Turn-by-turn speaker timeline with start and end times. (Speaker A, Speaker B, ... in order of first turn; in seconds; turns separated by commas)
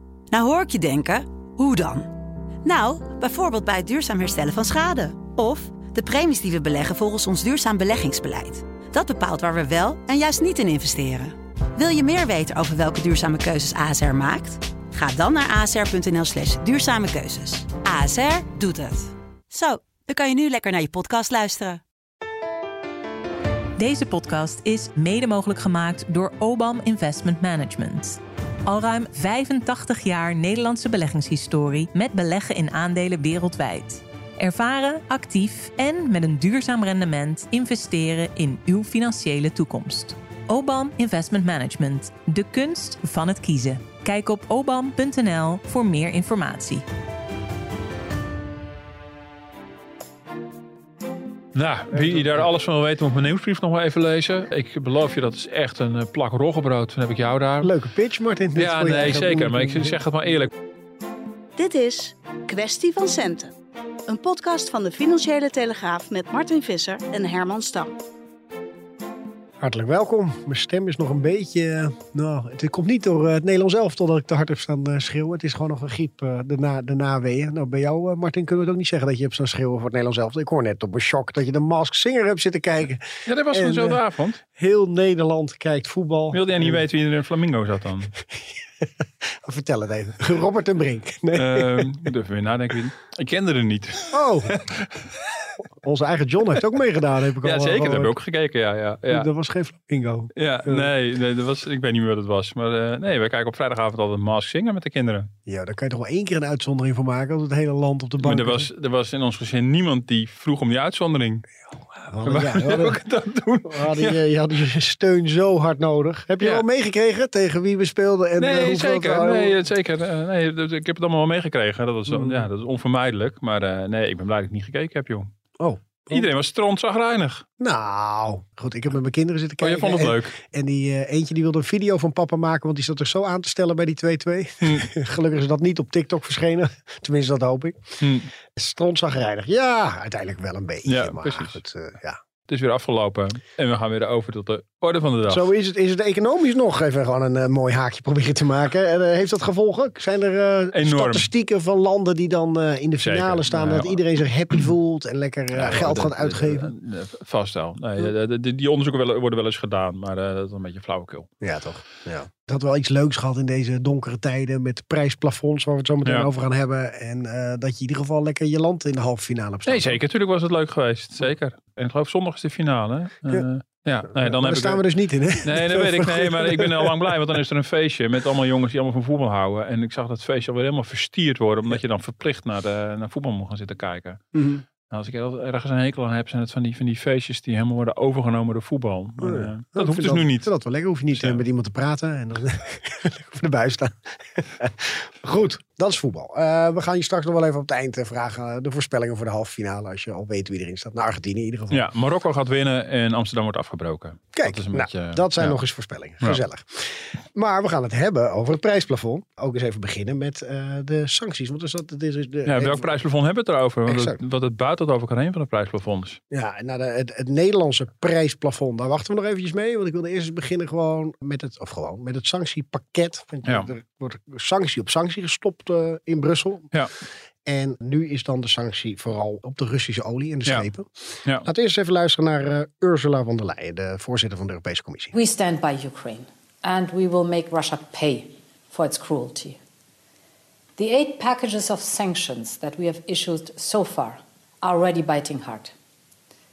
Speaker A: 0.3-21.8, Speaker B: 23.8-46.9, Speaker C: 51.5-57.7, Speaker D: 52.0-52.4, Speaker D: 57.6-60.0, Speaker C: 58.5-60.5, Speaker E: 61.6-68.0, Speaker D: 69.6-84.0, Speaker C: 83.3-84.4, Speaker D: 84.5-86.8, Speaker C: 86.3-88.2, Speaker D: 88.8-91.9, Speaker C: 91.3-95.1, Speaker D: 94.1-94.5, Speaker D: 95.8-98.2, Speaker C: 97.4-99.3, Speaker D: 99.1-100.9, Speaker C: 100.3-105.3, Speaker D: 105.5-108.7, Speaker C: 108.2-111.5, Speaker D: 112.0-113.0, Speaker C: 112.2-114.2, Speaker D: 113.7-119.6, Speaker C: 118.4-125.3, Speaker D: 122.1-122.4, Speaker D: 125.6-126.3, Speaker C: 126.1-127.4, Speaker D: 127.6-138.0, Speaker C: 129.6-130.4, Speaker C: 134.6-134.9, Speaker C: 138.0-138.3, Speaker D: 138.5-142.2, Speaker C: 140.9-141.6, Speaker C: 142.5-145.5, Speaker D: 145.3-156.7, Speaker C: 150.7-151.3, Speaker C: 153.0-154.0, Speaker C: 155.5-161.3, Speaker D: 161.4-170.0, Speaker C: 169.7-174.8, Speaker D: 174.1-177.1, Speaker C: 175.4-184.2, Speaker D: 184.3-184.7, Speaker C: 184.9-190.5, Speaker D: 189.2-201.8, Speaker C: 201.7-205.6, Speaker D: 204.3-212.9, Speaker C: 212.4-216.2, Speaker D: 213.9-214.2, Speaker D: 216.3-226.8, Speaker D: 227.4-235.1, Speaker F: 235.1-239.6, Speaker F: 240.8-245.7